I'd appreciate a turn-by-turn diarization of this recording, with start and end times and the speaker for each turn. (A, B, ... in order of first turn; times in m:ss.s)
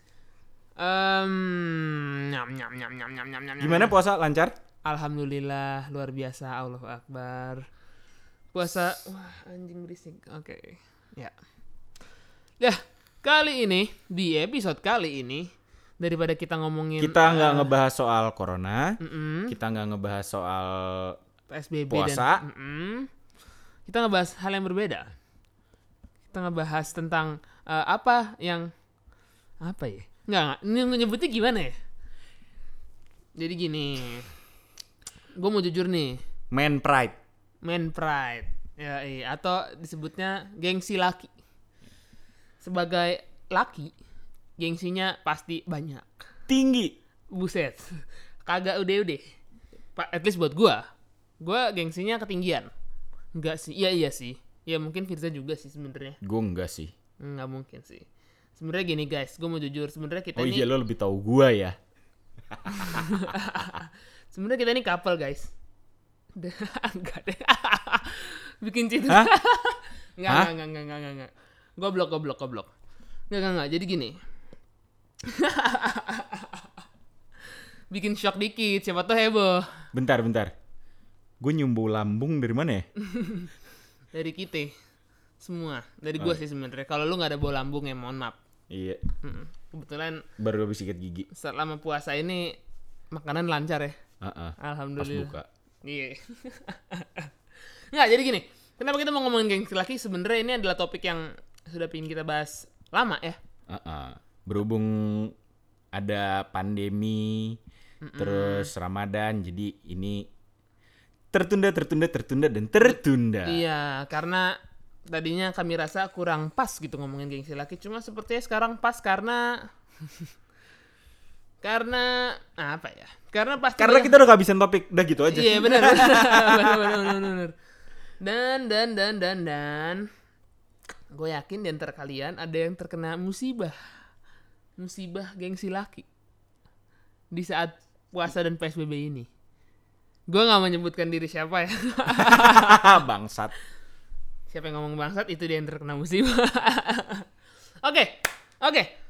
0:00.8-0:04.0 A
0:03.6-0:04.6 B
0:04.8-0:07.6 A
0:08.5-0:11.3 A
0:12.6-0:17.7 A
0:17.0-0:21.2 B
0:19.0-0:19.6 A
0:21.5-0:23.1 A
0:21.9-0:22.4 B
0:23.9-0:25.1 A
0:26.3-0:28.7 A
0:29.6-0:31.8 A
0:33.4-0:34.3 A
0:35.4-0:36.2 A
0:36.5-0:37.2 B
0:37.6-0:41.3 A
0:42.6-0:43.9 A
0:44.6-0:46.3 A
0:46.5-0:47.0 B
0:47.3-0:49.2 A
0:50.0-0:50.8 A
0:51.4-0:52.7 A
0:53.4-0:56.2 A
0:56.2-0:56.9 B
0:57.2-1:00.7 A
1:00.4-1:01.8 B
1:02.5-1:03.3 B
1:02.7-1:05.5 A
1:06.4-1:12.7 A
1:13.3-1:14.2 A
1:15.2-1:16.7 A
1:17.9-1:19.8 A
1:19.9-1:20.5 B
1:21.4-1:22.9 B
1:23.0-1:23.5 A
1:24.1-1:24.7 A
1:25.4-1:28.4 A
1:28.7-1:29.1 B
1:29.2-1:30.2 A
1:30.4-1:31.3 B
1:31.3-1:32.6 A
1:33.1-1:34.0 A
1:34.2-1:35.5 B
1:34.6-1:37.3 A
1:37.9-1:43.4 A
1:43.7-1:45.3 B
1:45.9-1:47.6 B
1:48.0-1:48.7 A
1:48.2-1:50.3 B
1:51.3-1:53.6 B
1:53.4-2:00.3 A
2:01.6-2:04.2 A
2:03.8-2:07.2 B
2:05.3-2:07.6 A
2:08.2-2:10.1 A
2:11.1-2:13.8 A
2:14.8-2:16.1 A
2:17.3-2:19.3 A
2:20.3-2:23.0 A
2:22.1-2:23.5 B
2:24.5-2:27.3 A
2:27.8-2:28.9 A